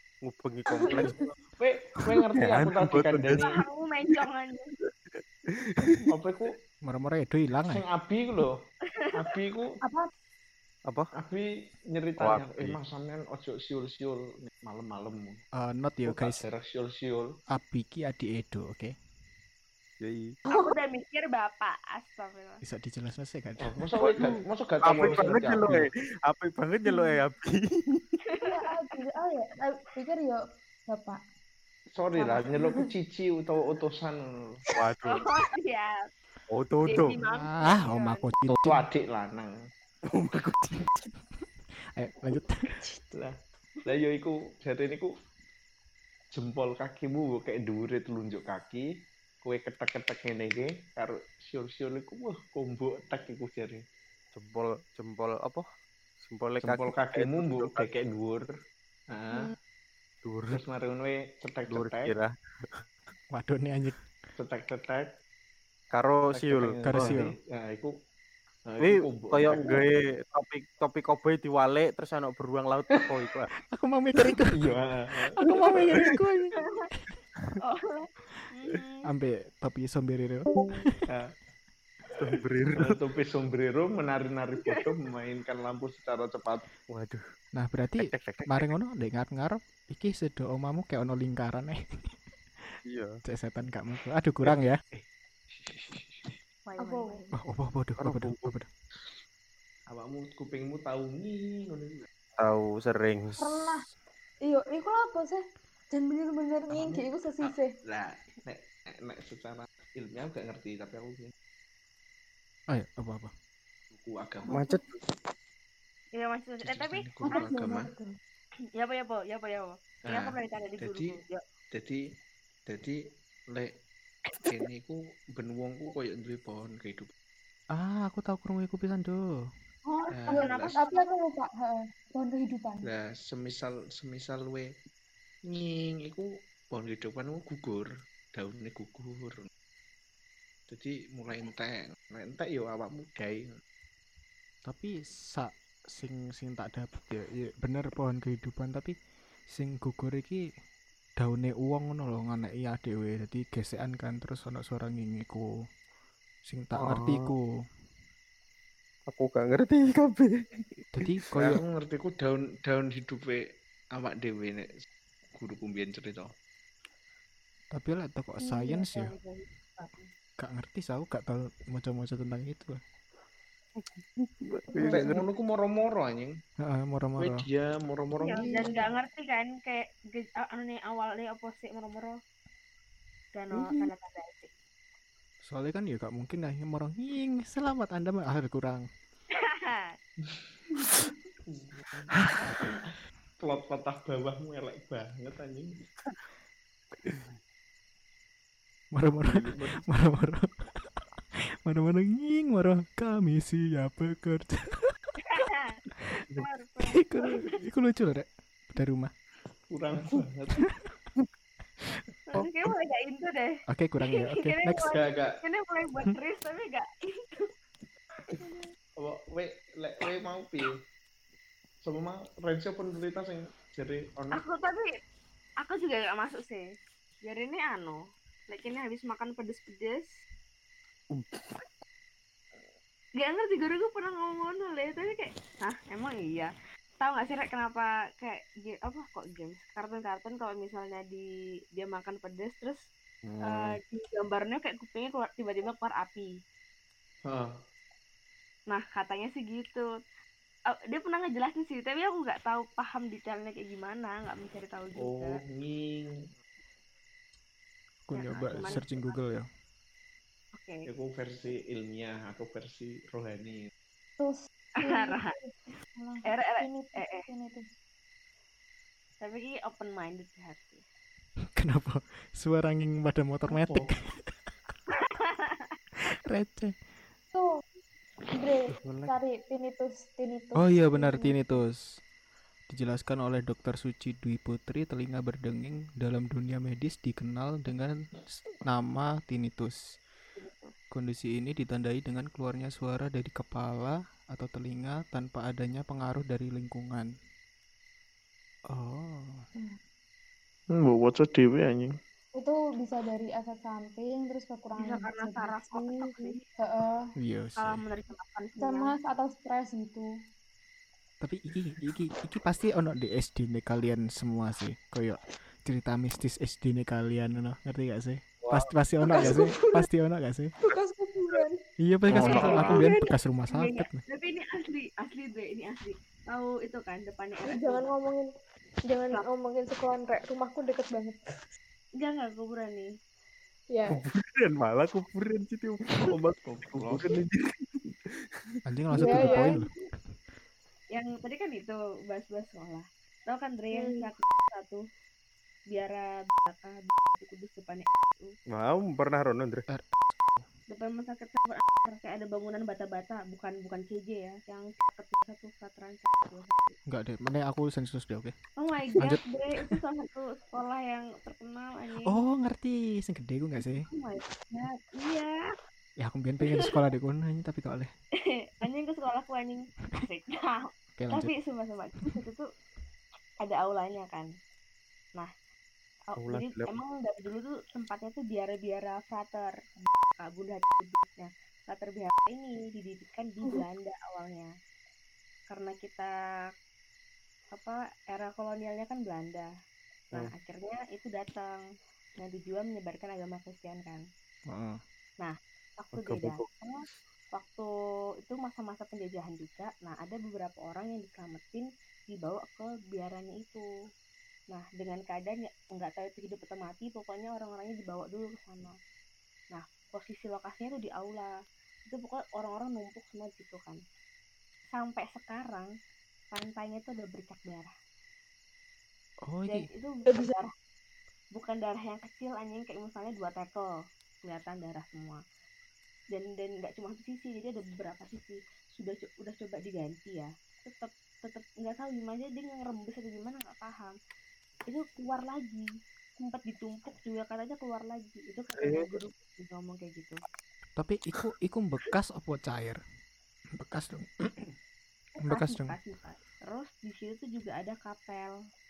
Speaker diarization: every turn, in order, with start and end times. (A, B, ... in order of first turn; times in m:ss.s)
0:00.2-0:01.3 A
0:00.9-0:01.2 B
0:01.6-0:03.6 C
0:02.0-0:03.5 A
0:03.4-0:04.7 D
0:04.8-0:06.0 A
0:06.0-0:06.5 C
0:06.8-0:07.8 E
0:07.7-0:08.6 C
0:08.9-0:09.3 D
0:09.1-0:09.8 C
0:09.8-0:10.1 B
0:11.1-0:15.4 C
0:12.2-0:12.8 A
0:15.6-0:16.4 E
0:16.0-0:17.3 C
0:17.5-0:18.9 E
0:20.0-0:20.4 A
0:20.5-0:22.6 D
0:22.6-0:23.8 E
0:23.6-0:25.9 C
0:24.0-0:28.2 A
0:26.9-0:27.1 B
0:28.3-0:28.6 D
0:28.4-0:31.2 B
0:31.9-0:34.6 C
0:32.2-0:32.8 B
0:34.7-0:35.2 A
0:35.1-0:36.0 D
0:36.5-0:37.2 A
0:36.8-0:38.2 D
0:37.2-0:38.9 E
0:38.6-0:39.5 C
0:40.1-0:41.0 A
0:41.9-0:43.0 E
0:43.1-0:45.1 C
0:46.3-0:48.8 C
0:49.4-0:53.8 C
0:54.3-0:55.6 A
0:56.2-0:57.9 A
0:56.6-0:58.5 C
0:59.1-0:59.5 C
1:00.2-1:00.6 A
1:00.5-1:02.1 C
1:01.7-1:02.8 A
1:03.3-1:04.0 E
1:04.4-1:05.1 C
1:05.9-1:07.2 A
1:06.3-1:07.9 C
1:06.9-1:07.3 E
1:08.7-1:09.8 C
1:08.8-1:13.5 A
1:13.6-1:14.8 E
1:14.5-1:15.7 C
1:15.4-1:16.4 E
1:15.5-1:16.4 B
1:16.6-1:16.9 D
1:17.6-1:19.1 D
1:19.0-1:21.0 E
1:21.1-1:21.3 C
1:22.2-1:23.0 A
1:22.7-1:26.6 C
1:26.9-1:27.2 A
1:27.5-1:31.8 E
1:28.0-1:28.7 A
1:32.8-1:33.2 A
1:33.2-1:34.8 E
1:34.9-1:36.4 C
1:36.6-1:37.4 D
1:36.8-1:37.2 B
1:37.4-1:38.7 E
1:38.0-1:38.5 A
1:39.9-1:42.1 C
1:42.4-1:43.7 A
1:43.4-1:43.8 B
1:44.4-1:47.7 B
1:46.7-1:51.3 C
1:52.7-1:53.3 E
1:53.9-1:54.6 C
1:54.5-1:54.8 B
1:54.5-1:55.0 A
1:56.2-1:57.5 D
1:56.6-1:57.9 C
1:57.3-1:58.1 B
1:58.8-2:01.4 D
2:00.1-2:01.2 C
2:01.7-2:02.0 C
2:02.7-2:03.0 C
2:04.4-2:07.1 C
2:07.7-2:09.3 E
2:09.8-2:12.9 B
2:10.1-2:10.8 C
2:10.3-2:11.1 D
2:12.8-2:14.7 C
2:15.5-2:19.5 C
2:20.7-2:23.5 C
2:24.6-2:28.9 E
2:29.5-2:30.4 E
2:31.2-2:35.5 E
2:36.5-2:37.5 E
2:36.8-2:37.3 A
2:39.1-2:41.6 A
2:40.9-2:41.6 E
2:41.3-2:43.4 C
2:43.9-2:46.3 C
2:47.7-2:49.1 E
2:48.4-2:50.1 D
2:50.4-2:52.8 E
2:53.8-2:55.2 A
2:54.8-2:56.3 C
2:56.6-2:57.4 E
2:57.2-2:58.8 C
2:58.2-3:02.2 D
3:03.3-3:04.5 D
3:05.4-3:08.8 E
3:09.3-3:09.9 D
3:11.5-3:15.7 C
3:17.0-3:17.3 A
3:18.9-3:21.0 E
3:19.2-3:19.8 A
3:21.6-3:25.0 E
3:25.2-3:27.4 D
3:26.4-3:29.1 E
3:29.7-3:30.6 C
3:32.3-3:33.5 D
3:33.7-3:34.9 E
3:34.1-3:37.5 D
3:34.9-3:35.4 C
3:38.4-3:38.6 D
3:39.0-3:40.8 C
3:41.8-3:44.4 C
3:44.3-3:44.9 D
3:45.6-3:46.6 D
3:47.2-3:50.1 D
3:51.1-3:51.6 A
3:53.2-4:02.8 D
4:03.2-4:03.7 A
4:03.4-4:06.3 D
4:07.2-4:07.5 C
4:08.7-4:09.9 D
4:10.7-4:15.4 D
4:15.0-4:16.1 C
4:18.1-4:19.5 E
4:18.1-4:19.2 D
4:20.6-4:20.8 D
4:20.9-4:23.6 C
4:24.2-4:27.6 B
4:24.8-4:25.3 D
4:26.2-4:27.2 D
4:29.2-4:30.8 D
4:31.6-4:34.3 E
4:33.6-4:33.9 C
4:34.9-4:35.7 D
4:36.1-4:36.8 E
4:38.3-4:41.6 B
4:38.7-4:39.1 A
4:40.6-4:42.0 E
4:42.7-4:49.8 E
4:50.4-4:50.7 D
4:50.9-4:57.1 E
4:58.7-4:59.4 E
5:00.7-5:01.9 C
5:02.4-5:07.1 B
5:04.8-5:06.4 D
5:07.2-5:07.8 E
5:07.6-5:08.9 D
5:08.6-5:10.1 B
5:11.2-5:20.5 E
5:18.4-5:19.4 A
5:19.0-5:19.9 B
5:20.6-5:21.6 B
5:21.8-5:24.0 E
5:22.1-5:22.9 A
5:22.2-5:22.9 D
5:22.2-5:23.1 B
5:23.5-5:27.9 D
5:27.4-5:28.3 B
5:28.9-5:31.2 B
5:32.0-5:32.9 D
5:33.7-5:34.0 B
5:33.9-5:38.2 A
5:36.4-5:37.2 C
5:38.6-5:39.7 E
5:38.9-5:39.7 B
5:39.1-5:39.5 D
5:40.9-5:44.8 D
5:43.7-5:44.1 B
5:45.7-5:48.3 D
5:48.5-5:49.6 A
5:49.7-5:50.4 E
5:50.7-5:56.8 D
5:56.9-5:58.4 E
5:58.6-6:02.2 D
5:59.0-5:59.8 E
6:02.0-6:03.9 E
6:03.9-6:05.3 D
6:06.0-6:07.9 E
6:08.2-6:12.5 D
6:11.0-6:11.3 E
6:13.4-6:14.3 D
6:16.1-6:24.5 D
6:16.2-6:16.7 A
6:25.5-6:26.1 D
6:27.5-6:29.5 D
6:30.1-6:31.6 D
6:32.2-6:34.0 D
6:34.5-6:34.8 E
6:35.2-6:37.7 D
6:35.9-6:36.4 A
6:38.2-6:43.6 D
6:44.5-6:48.7 D
6:49.5-6:51.4 D
6:51.9-6:53.8 D
6:54.7-6:55.7 D
6:56.3-6:57.7 D
6:59.2-6:59.7 E
6:59.5-7:00.5 D
7:00.0-7:00.4 B
7:01.3-7:03.7 D
7:04.2-7:05.2 D
7:06.1-7:14.0 D
7:14.7-7:20.2 D
7:18.6-7:18.9 A
7:20.8-7:22.8 E
7:23.6-7:24.1 E
7:25.2-7:28.3 D
7:25.2-7:25.8 E